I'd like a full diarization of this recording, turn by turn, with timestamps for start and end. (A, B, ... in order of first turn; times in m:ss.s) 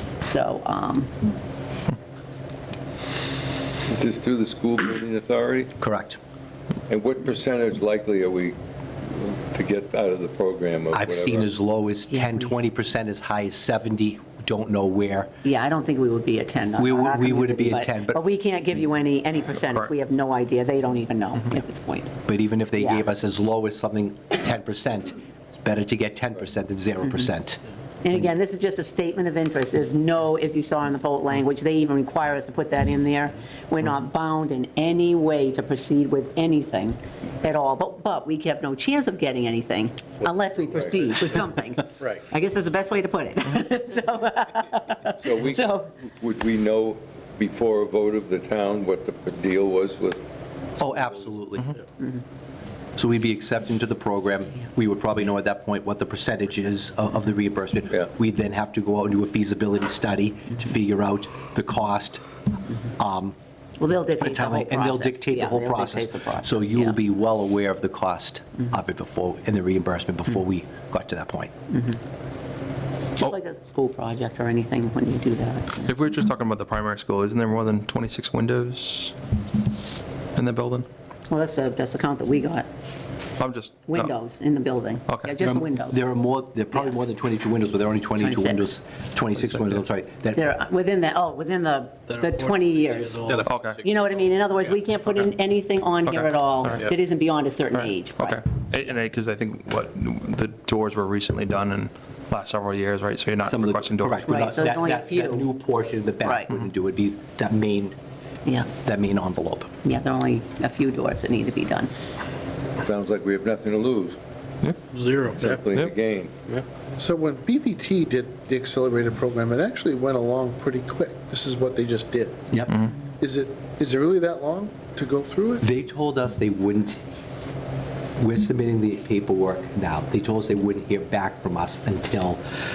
0:00.2-0:01.2 A
0:03.9-0:05.7 B
0:05.8-0:06.2 C
0:06.9-0:11.5 B
0:10.9-0:15.3 C
0:12.1-0:12.5 A
0:15.4-0:22.1 A
0:16.8-0:18.2 C
0:22.3-0:27.6 C
0:22.8-0:23.0 A
0:28.0-0:45.9 A
0:45.2-0:50.9 B
0:50.8-0:51.7 C
0:53.0-1:02.2 C
1:03.0-1:03.4 C
1:03.8-1:07.0 A
1:04.2-1:11.5 C
1:11.7-1:12.0 A
1:13.2-1:15.9 A
1:15.8-1:19.1 D
1:20.4-1:20.9 D
1:21.3-1:22.7 A
1:23.4-1:24.1 D
1:23.9-1:26.0 A
1:25.4-1:30.4 C
1:28.2-1:28.7 A
1:29.4-1:29.7 D
1:30.3-1:38.4 A
1:32.1-1:33.5 E
1:33.4-1:33.8 D
1:36.1-1:36.8 D
1:38.2-1:44.5 D
1:43.4-1:47.9 C
1:44.3-1:45.4 A
1:46.2-1:46.5 A
1:48.7-1:49.7 C
1:49.8-1:51.9 A
1:52.8-1:54.2 B
1:54.9-1:55.6 E
1:55.3-1:56.4 B
1:57.0-2:02.5 F
2:02.7-2:02.9 D
2:03.1-2:05.6 F
2:05.6-2:07.0 C
2:08.2-2:12.4 C